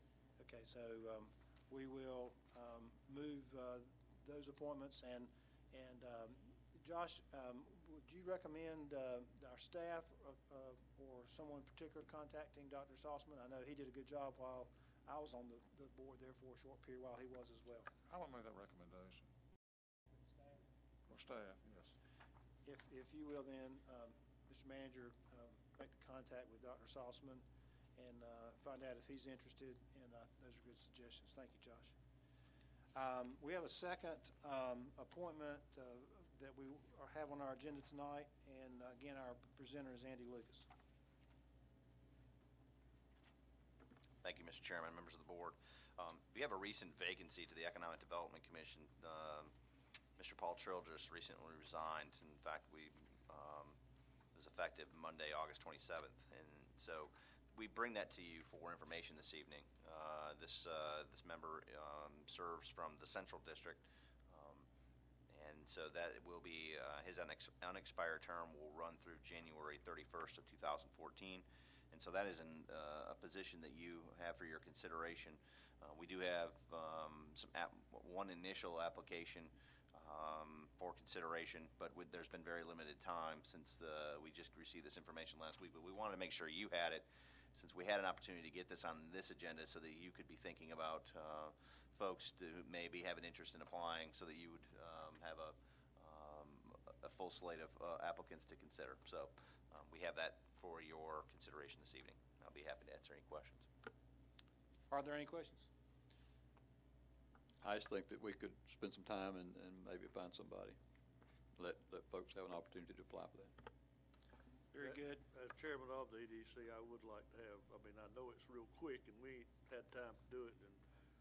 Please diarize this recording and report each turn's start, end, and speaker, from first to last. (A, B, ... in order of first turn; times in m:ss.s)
0:00.4-0:17.9 A
0:18.1-0:19.3 B
0:20.3-0:20.6 A
0:21.1-0:22.0 B
0:22.6-0:27.4 A
0:28.0-0:31.9 A
0:32.9-0:40.7 A
0:44.2-0:49.5 C
0:50.2-0:53.8 C
0:54.4-1:04.7 C
1:05.3-1:43.7 C
1:44.9-1:45.7 A
1:47.6-1:50.8 D
1:51.6-1:53.5 D
1:54.7-1:55.2 A
1:54.8-2:00.8 E